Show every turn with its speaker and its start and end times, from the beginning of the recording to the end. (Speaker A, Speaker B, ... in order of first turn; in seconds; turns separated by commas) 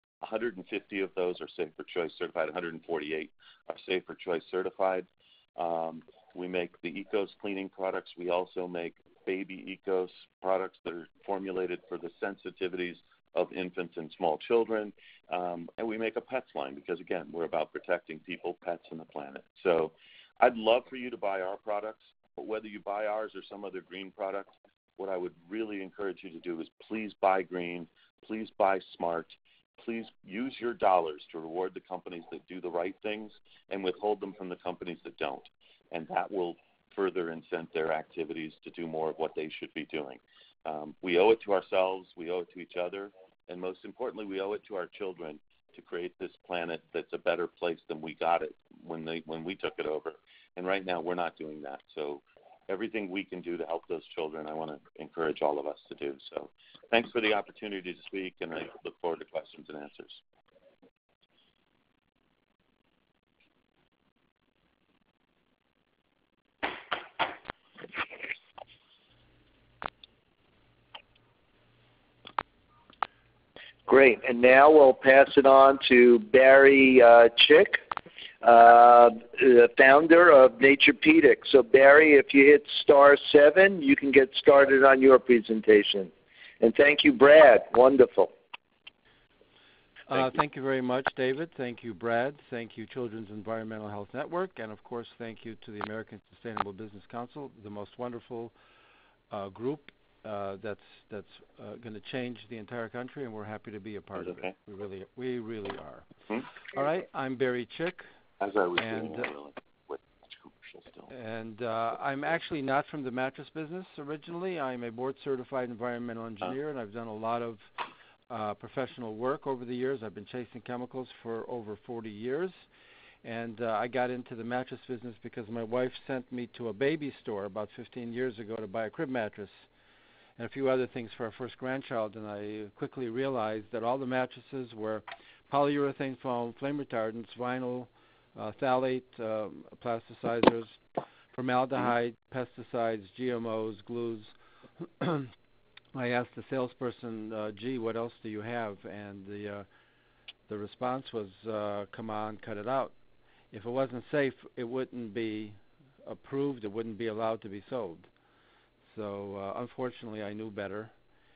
Speaker A: 0.2-60.2, Speaker B: 73.9-77.8, Speaker B: 78.4-88.3, Speaker C: 90.1-98.5, Speaker C: 99.3-106.1, Speaker A: 104.2-104.5, Speaker C: 106.7-108.0, Speaker A: 108.4-111.1, Speaker C: 108.8-109.3, Speaker C: 111.1-117.7, Speaker C: 118.3-122.7, Speaker C: 123.2-129.7, Speaker C: 130.4-140.8, Speaker C: 141.3-145.3, Speaker C: 145.9-149.7, Speaker C: 150.5-152.9, Speaker C: 153.5-158.1, Speaker C: 158.9-160.9